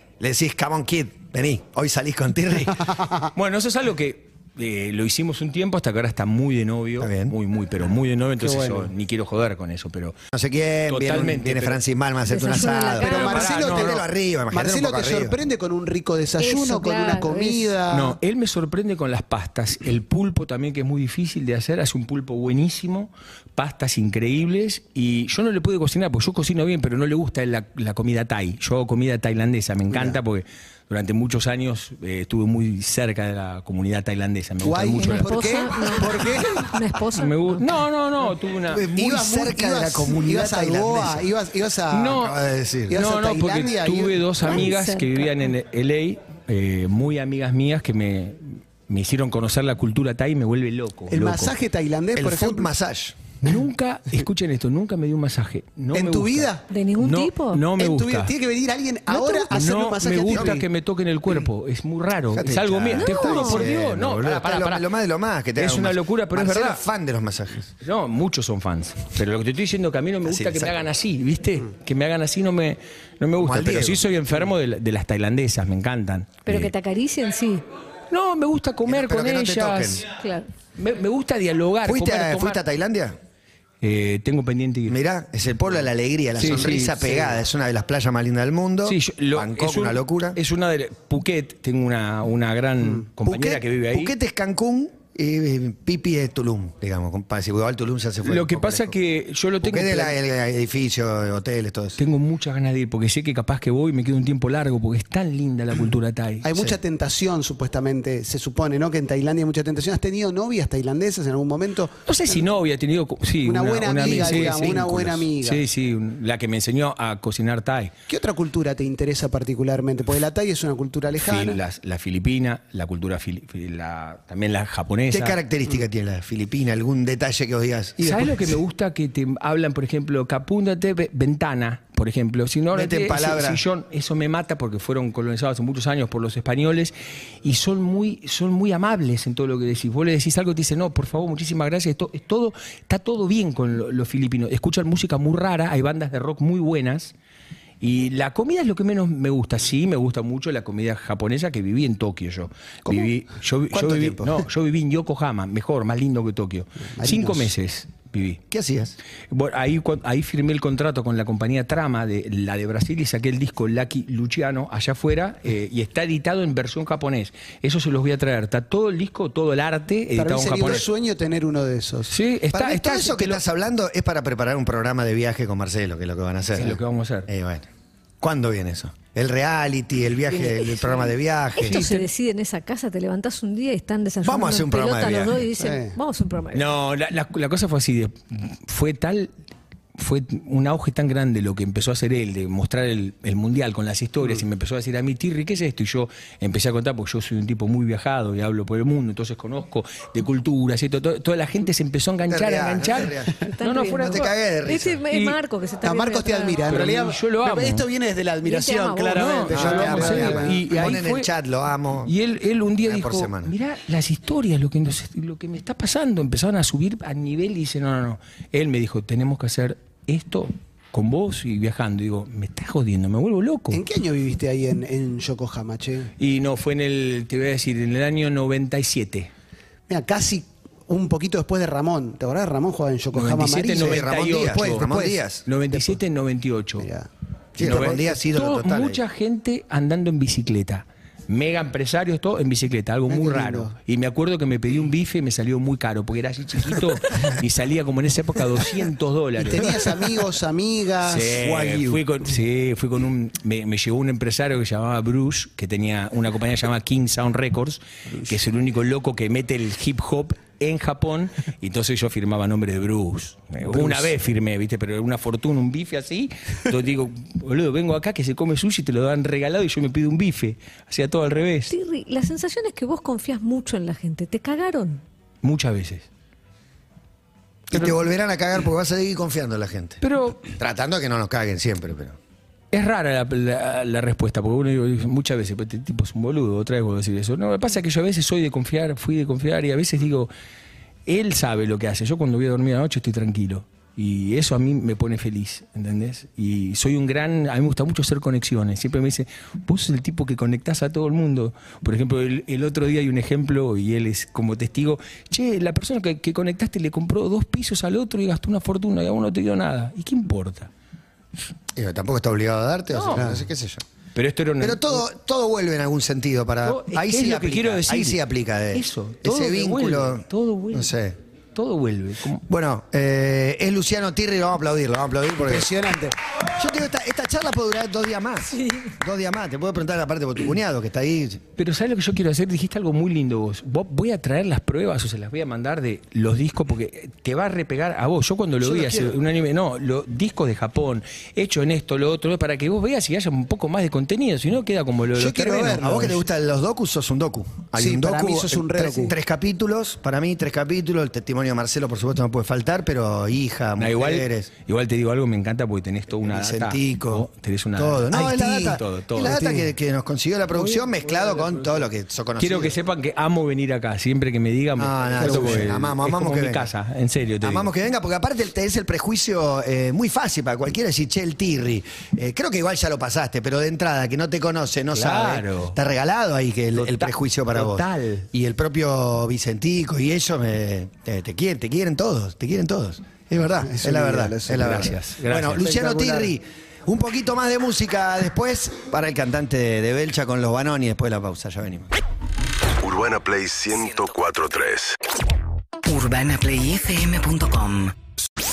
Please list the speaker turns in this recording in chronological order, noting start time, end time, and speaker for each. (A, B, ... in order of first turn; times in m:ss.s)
0:00.2-0:03.0 A
0:03.3-0:10.2 B
0:07.0-0:07.3 A
0:08.4-0:08.9 C
0:10.3-0:15.4 A
0:10.9-0:11.8 B
0:12.3-0:13.5 D
0:13.0-0:14.0 C
0:13.0-0:14.0 B
0:14.5-0:18.2 C
0:16.4-0:17.8 D
0:17.9-0:36.2 B
0:29.9-0:30.2 A
0:34.6-0:36.7 C
0:35.0-0:37.6 D
0:37.1-0:38.9 B
0:38.7-0:41.3 A
0:38.9-0:42.2 C
0:41.9-0:42.4 B
0:42.0-0:43.0 A
0:42.9-0:44.5 C
0:42.9-0:51.5 B
0:44.4-0:45.3 D
0:51.1-0:52.7 C
0:52.1-0:53.2 A
0:53.4-0:58.3 B
0:55.9-0:56.6 C
0:56.7-0:57.6 D
0:57.7-1:00.6 C
0:59.1-1:04.9 B
1:02.3-1:07.7 A
1:02.9-1:03.6 D
1:05.6-1:06.8 B
1:07.8-1:16.7 B
1:10.2-1:10.8 A
1:13.4-1:14.1 A
1:16.4-1:17.6 D
1:18.1-1:20.0 B
1:18.8-1:20.0 A
1:20.2-1:20.5 D
1:20.8-1:22.6 B
1:21.8-1:23.2 A
1:23.8-1:25.0 B
1:24.9-1:30.4 A
1:26.4-1:27.4 B
1:28.8-1:34.1 B
1:33.2-1:39.0 A
1:38.2-1:40.2 B
1:39.6-1:42.0 A
1:42.0-1:46.4 B
1:46.4-1:52.4 C
1:52.0-1:57.9 B
1:53.4-1:55.6 C
1:58.1-2:01.6 C
2:01.2-2:05.4 B
2:05.1-2:08.3 A
2:08.0-2:27.1 B
2:12.7-2:13.6 A
2:27.8-2:38.4 B
2:33.7-2:34.4 A
2:37.0-2:37.5 C
2:38.5-2:39.0 A
2:39.3-2:50.9 B
2:50.1-2:52.1 C
2:52.1-2:53.4 B
2:52.5-2:57.7 A
2:56.5-2:57.3 B
2:58.2-3:01.8 A
3:00.3-3:01.0 B
3:01.6-3:06.7 D
3:01.6-3:02.0 B
3:04.2-3:05.5 A
3:05.6-3:05.9 C
3:06.5-3:09.3 B
3:09.9-3:24.3 B
3:22.3-3:23.4 A
3:23.6-3:26.7 D
3:24.0-3:25.0 A
3:25.1-3:25.4 B
3:25.8-3:30.6 C
3:26.7-3:27.8 B
3:28.4-3:30.2 D
3:29.1-3:31.3 B
3:29.5-3:32.1 A
3:32.0-3:43.8 B
3:32.8-3:33.5 A
3:43.7-3:46.1 C
3:46.2-3:49.3 B
3:49.9-3:56.0 C
3:53.1-3:54.9 B
3:53.7-3:55.4 A
3:55.4-3:56.9 B
3:56.8-3:57.1 C
3:57.6-3:59.0 A
3:57.6-4:10.1 B
3:57.6-3:57.9 C
4:03.1-4:03.7 C
4:09.4-4:11.4 C
4:11.0-4:31.7 B
4:11.3-4:12.0 A
4:31.7-4:35.0 D
4:35.4-4:36.1 B
4:37.7-4:42.2 A
4:40.0-4:40.5 B
4:42.7-4:50.3 B
4:51.0-5:10.7 B
5:11.7-5:13.8 A
5:12.9-5:13.4 B
5:13.1-5:13.4 C
5:14.1-5:15.0 B
5:14.6-5:21.2 A
5:16.6-5:20.9 B
5:21.5-5:22.4 B
5:22.4-5:25.7 A
5:25.4-5:26.1 C
5:26.4-5:31.4 A
5:31.6-5:45.9 B
5:38.6-5:39.2 A
5:45.1-5:46.2 C
5:45.6-5:54.5 A
5:47.8-5:49.2 C
5:53.8-5:59.4 B
5:56.2-6:02.7 A
5:59.2-5:59.7 C
6:00.5-6:01.8 B
6:02.4-6:07.7 B
6:04.8-6:06.7 A
6:05.2-6:05.7 C
6:07.4-6:31.9 A
6:14.9-6:15.8 B
6:16.7-6:18.3 B
6:23.6-6:24.9 C
6:24.5-6:25.7 B
6:25.5-6:26.3 C
6:32.8-6:35.0 E
6:35.8-6:37.9 F